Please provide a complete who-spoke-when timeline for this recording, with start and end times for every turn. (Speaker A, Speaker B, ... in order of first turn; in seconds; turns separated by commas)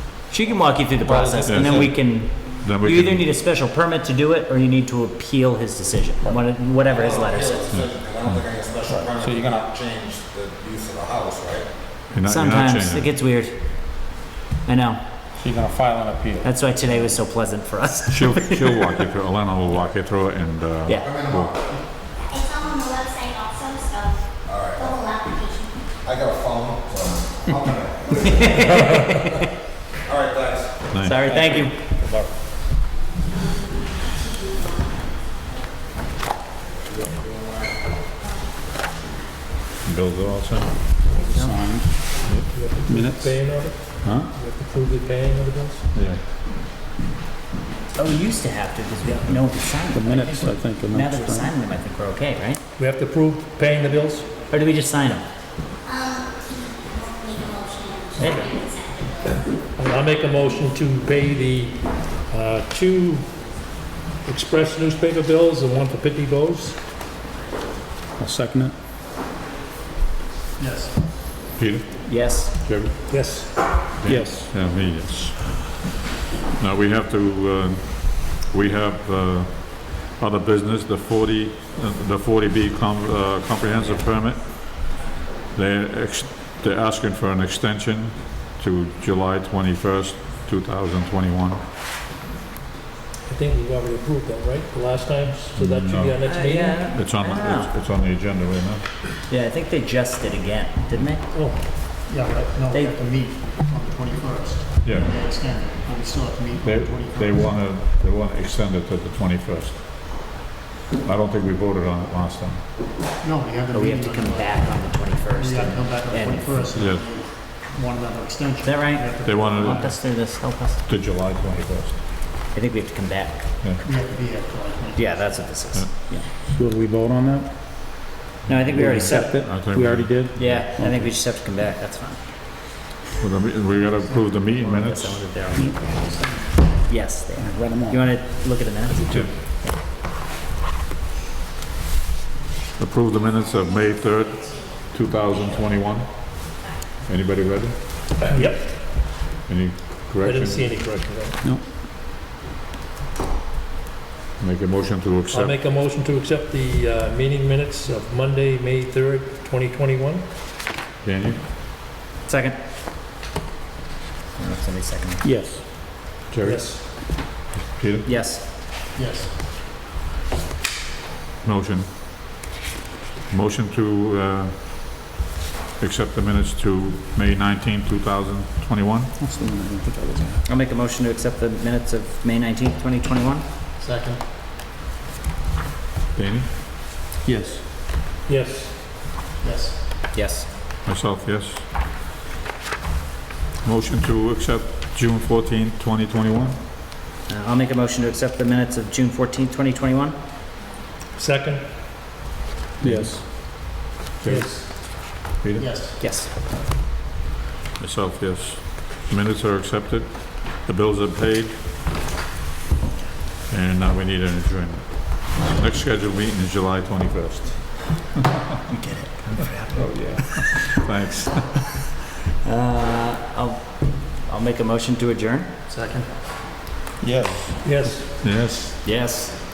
Speaker A: 0.3-7.7, Speaker B: 1.0-2.3, Speaker C: 1.4-1.9, Speaker C: 2.6-3.3, Speaker D: 6.8-11.7, Speaker C: 7.7-8.4, Speaker B: 8.9-9.6, Speaker C: 12.1-13.1, Speaker A: 12.2-13.6, Speaker A: 14.6-15.0, Speaker B: 15.4-16.4, Speaker A: 16.4-18.8, Speaker C: 18.1-21.5, Speaker D: 21.0-21.8, Speaker E: 22.3-25.8, Speaker D: 24.4-25.0, Speaker D: 26.0-28.7, Speaker A: 28.2-29.3, Speaker D: 30.0-30.8, Speaker A: 31.0-31.9, Speaker B: 31.2-32.3, Speaker E: 33.7-34.7, Speaker D: 36.9-37.8, Speaker C: 39.8-40.7, Speaker A: 41.1-41.5, Speaker B: 41.1-42.1, Speaker C: 42.2-42.5, Speaker F: 42.4-45.9, Speaker B: 42.9-43.4, Speaker C: 45.9-46.2, Speaker A: 48.0-52.6, Speaker B: 49.9-51.5, Speaker F: 52.8-54.3, Speaker A: 54.5-55.3, Speaker E: 55.8-59.5, Speaker A: 58.2-58.5, Speaker F: 59.8-63.4, Speaker F: 64.2-66.8, Speaker B: 68.2-68.7, Speaker G: 70.6-71.0, Speaker C: 71.5-71.9, Speaker A: 72.0-72.5, Speaker C: 72.6-72.9, Speaker F: 73.1-73.8, Speaker C: 74.0-75.8, Speaker B: 74.0-74.5, Speaker C: 76.5-91.6, Speaker F: 93.3-96.9, Speaker C: 95.5-96.2, Speaker A: 96.2-97.7, Speaker C: 96.9-98.8, Speaker A: 99.3-101.3, Speaker F: 101.3-101.7, Speaker G: 102.1-107.5, Speaker A: 102.7-102.9, Speaker C: 104.8-105.1, Speaker C: 106.6-109.8, Speaker C: 111.0-112.6, Speaker G: 113.2-119.9, Speaker A: 113.7-116.6, Speaker C: 116.7-117.1, Speaker A: 118.6-120.8, Speaker C: 119.2-119.9, Speaker C: 120.8-122.0, Speaker A: 122.5-123.5, Speaker G: 123.8-125.6, Speaker A: 124.9-126.2, Speaker C: 125.7-126.0, Speaker B: 126.3-127.5, Speaker A: 128.4-129.6, Speaker B: 128.7-131.2, Speaker C: 129.4-130.7, Speaker A: 130.3-132.2, Speaker C: 133.2-135.1, Speaker G: 134.0-135.1, Speaker A: 134.7-136.0, Speaker B: 135.5-136.2, Speaker G: 135.9-136.5, Speaker A: 136.8-139.7, Speaker B: 137.3-138.1, Speaker C: 139.1-139.4, Speaker C: 142.8-144.3, Speaker E: 143.1-146.8, Speaker C: 144.9-146.1, Speaker C: 147.0-147.8, Speaker F: 148.2-149.3, Speaker C: 149.4-150.7, Speaker F: 150.2-151.4, Speaker C: 154.4-155.5, Speaker F: 155.3-160.2, Speaker C: 161.0-161.4, Speaker A: 162.2-162.6, Speaker A: 164.3-165.2, Speaker B: 165.2-165.6, Speaker C: 166.3-166.6, Speaker F: 166.4-167.2, Speaker C: 167.5-168.1, Speaker A: 168.0-168.4, Speaker G: 168.9-169.3, Speaker C: 171.4-171.9, Speaker C: 173.3-174.6, Speaker C: 175.8-179.1, Speaker B: 179.1-180.4, Speaker A: 180.4-183.4, Speaker G: 183.8-184.2, Speaker C: 186.1-186.5, Speaker B: 187.2-187.6, Speaker F: 188.2-188.7, Speaker G: 189.4-189.8, Speaker A: 190.1-190.5, Speaker C: 190.8-191.7, Speaker C: 193.6-196.6, Speaker A: 197.3-200.2, Speaker F: 201.2-201.6, Speaker B: 202.8-203.5, Speaker C: 204.2-204.8, Speaker F: 204.2-204.7, Speaker C: 205.4-205.7, Speaker G: 205.6-206.1, Speaker A: 206.0-206.3, Speaker C: 207.8-211.6, Speaker C: 213.5-217.9, Speaker A: 218.7-220.3, Speaker B: 219.7-220.2, Speaker C: 219.9-221.8, Speaker A: 222.4-225.5, Speaker G: 225.7-226.1, Speaker B: 227.0-227.9, Speaker F: 227.6-228.2, Speaker C: 228.2-228.8, Speaker A: 228.8-229.3